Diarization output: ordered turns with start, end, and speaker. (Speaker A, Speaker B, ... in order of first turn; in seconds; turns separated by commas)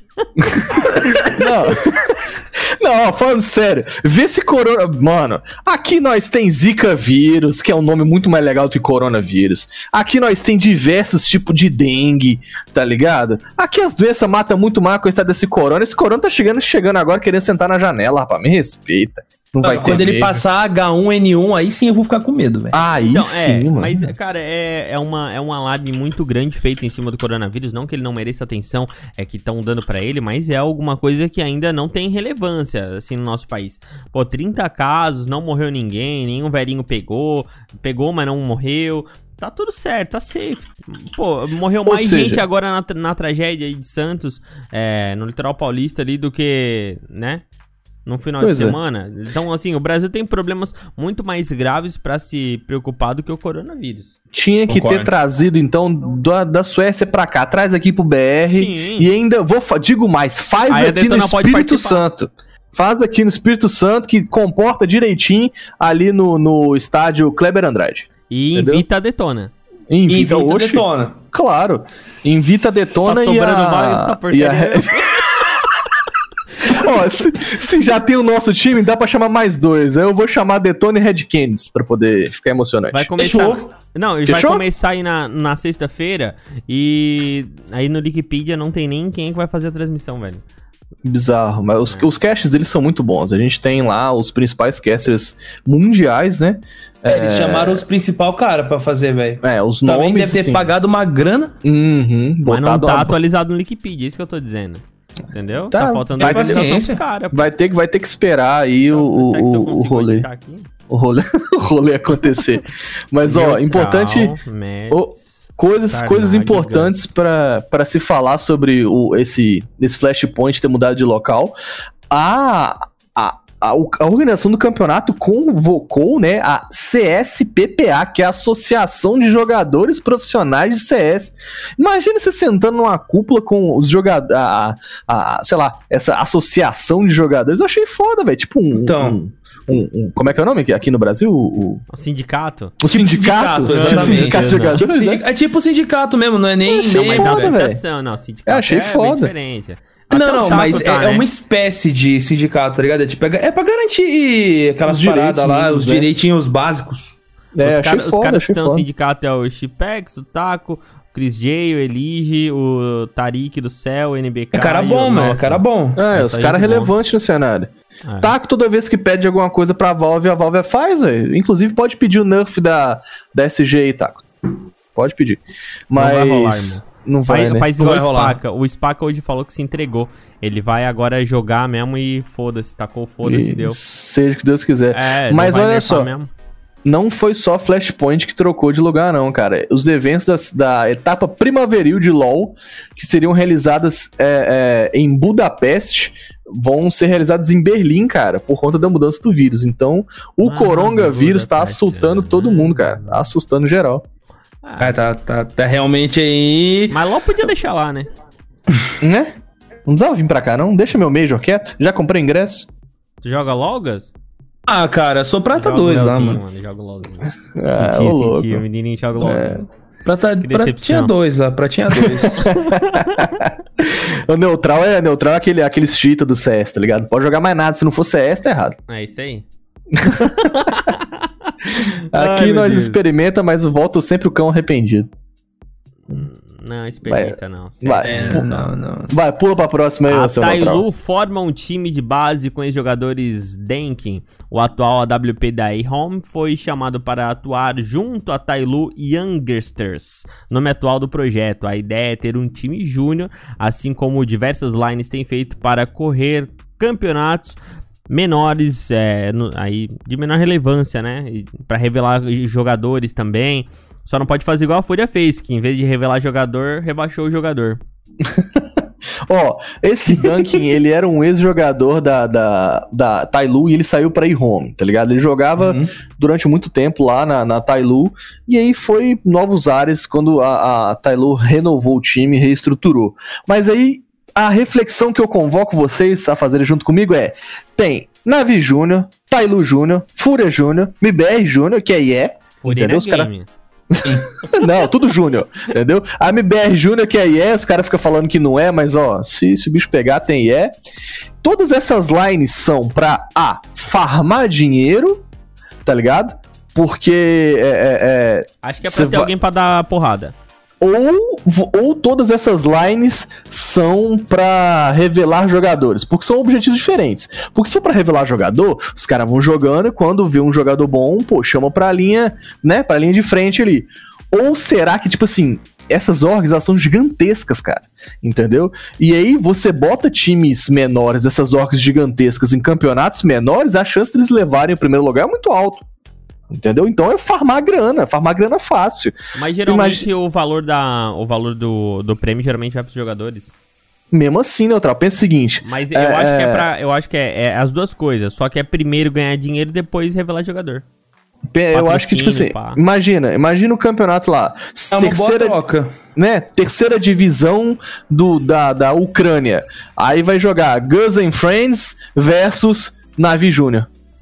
Speaker A: 0.4-0.9, Speaker B: 0.8-2.3, Speaker B: 2.8-20.4, Speaker C: 19.6-22.8, Speaker B: 22.7-24.1, Speaker A: 23.1-47.4, Speaker B: 41.8-42.4, Speaker A: 48.0-54.1, Speaker B: 48.4-48.8, Speaker B: 54.3-68.8, Speaker C: 54.7-55.1, Speaker A: 58.5-59.1, Speaker A: 60.7-62.0, Speaker A: 68.3-69.5, Speaker B: 69.9-75.6, Speaker C: 70.1-71.2, Speaker A: 73.0-75.3, Speaker B: 76.6-83.1, Speaker A: 82.9-90.4, Speaker C: 83.2-83.7, Speaker B: 84.2-84.6, Speaker B: 91.0-97.8, Speaker C: 97.1-101.5, Speaker B: 99.4-100.7, Speaker B: 101.6-103.2, Speaker A: 102.4-107.5, Speaker B: 105.7-110.2, Speaker C: 106.2-107.0, Speaker A: 108.9-110.7, Speaker B: 110.9-114.3, Speaker A: 113.2-115.2, Speaker B: 114.9-121.5, Speaker A: 115.9-117.0, Speaker B: 122.1-141.8, Speaker C: 138.7-139.2, Speaker A: 141.9-142.8, Speaker B: 142.8-145.2, Speaker C: 142.9-147.5, Speaker A: 143.7-144.8, Speaker B: 146.6-147.8, Speaker A: 146.9-151.2, Speaker B: 148.5-149.3, Speaker C: 150.1-157.2, Speaker B: 154.8-156.1, Speaker B: 157.5-158.9, Speaker A: 157.6-166.9, Speaker C: 164.5-166.0, Speaker B: 165.9-174.2, Speaker A: 168.1-168.3, Speaker B: 174.9-177.7, Speaker A: 175.9-183.8, Speaker C: 177.8-178.4, Speaker B: 183.2-186.1, Speaker A: 184.9-186.3, Speaker B: 186.8-204.0, Speaker A: 200.4-203.2, Speaker A: 204.6-205.0, Speaker C: 204.8-207.0, Speaker A: 206.9-208.1, Speaker B: 209.0-209.3, Speaker B: 209.8-212.7, Speaker A: 213.2-214.1, Speaker C: 214.7-216.4, Speaker A: 215.6-219.7, Speaker B: 217.5-218.6, Speaker B: 219.2-219.6, Speaker C: 220.0-222.5, Speaker A: 220.4-221.1, Speaker B: 221.9-228.8, Speaker A: 222.4-223.3, Speaker A: 228.9-229.4, Speaker B: 229.9-230.5, Speaker A: 230.1-233.0, Speaker B: 231.8-235.1, Speaker A: 236.1-238.7, Speaker B: 237.1-238.5, Speaker C: 238.0-239.1, Speaker B: 239.1-240.8, Speaker A: 240.1-257.6, Speaker A: 258.1-267.8, Speaker B: 268.2-293.3, Speaker C: 275.6-275.9, Speaker A: 292.6-293.5, Speaker B: 293.9-300.7, Speaker B: 301.4-305.2, Speaker B: 305.8-309.3, Speaker A: 308.6-310.3, Speaker B: 310.8-335.8, Speaker B: 336.5-340.1, Speaker A: 339.3-343.5, Speaker B: 344.1-346.7, Speaker A: 345.6-350.8, Speaker B: 351.5-355.6, Speaker A: 351.7-352.8, Speaker C: 354.9-355.9, Speaker B: 356.1-363.9